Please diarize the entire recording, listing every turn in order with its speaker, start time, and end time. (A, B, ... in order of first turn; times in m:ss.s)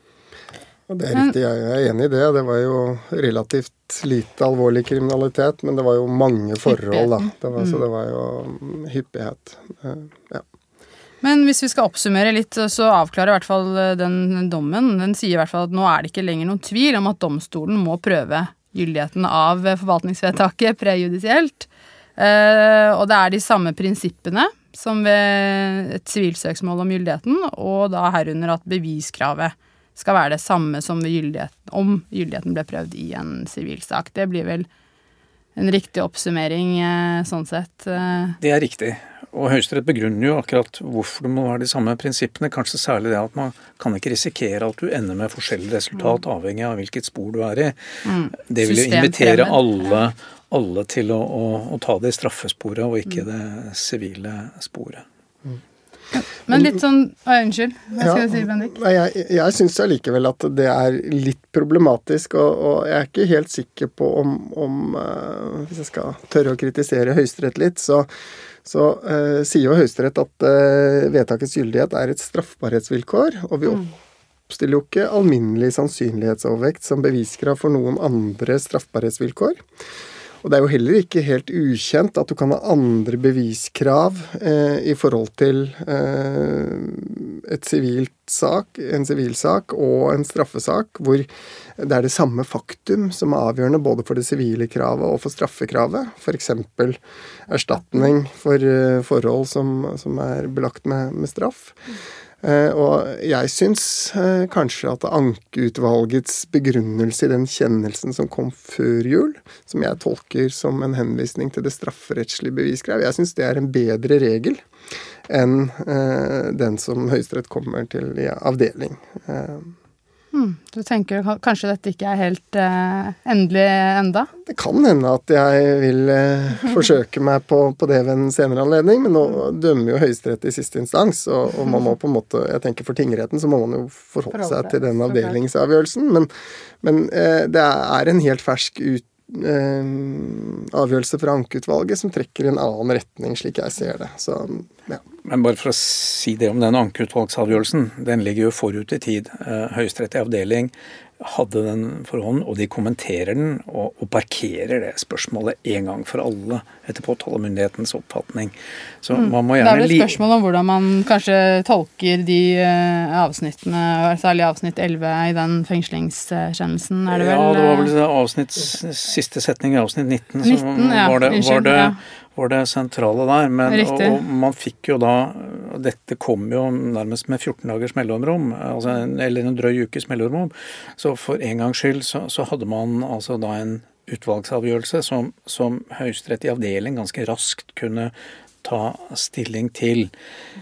0:00.9-0:10.4 A
0:06.7-0:07.8 B
0:11.2-0:34.7 B
0:35.6-0:38.4 B
0:38.4-0:55.0 C
0:48.0-0:49.6 B
0:56.1-0:58.7 B
0:58.0-1:08.1 A
1:08.6-1:13.9 A
1:14.5-1:19.6 A
1:20.4-1:41.8 A
1:42.4-1:54.6 A
1:55.3-1:59.7 A
2:00.3-2:04.3 B
2:04.4-2:16.3 A
2:14.3-2:15.3 B
2:16.8-2:25.0 A
2:25.2-2:40.2 C
2:39.1-2:47.9 B
2:47.1-3:10.1 C
2:50.4-2:52.0 B
2:53.7-2:54.2 B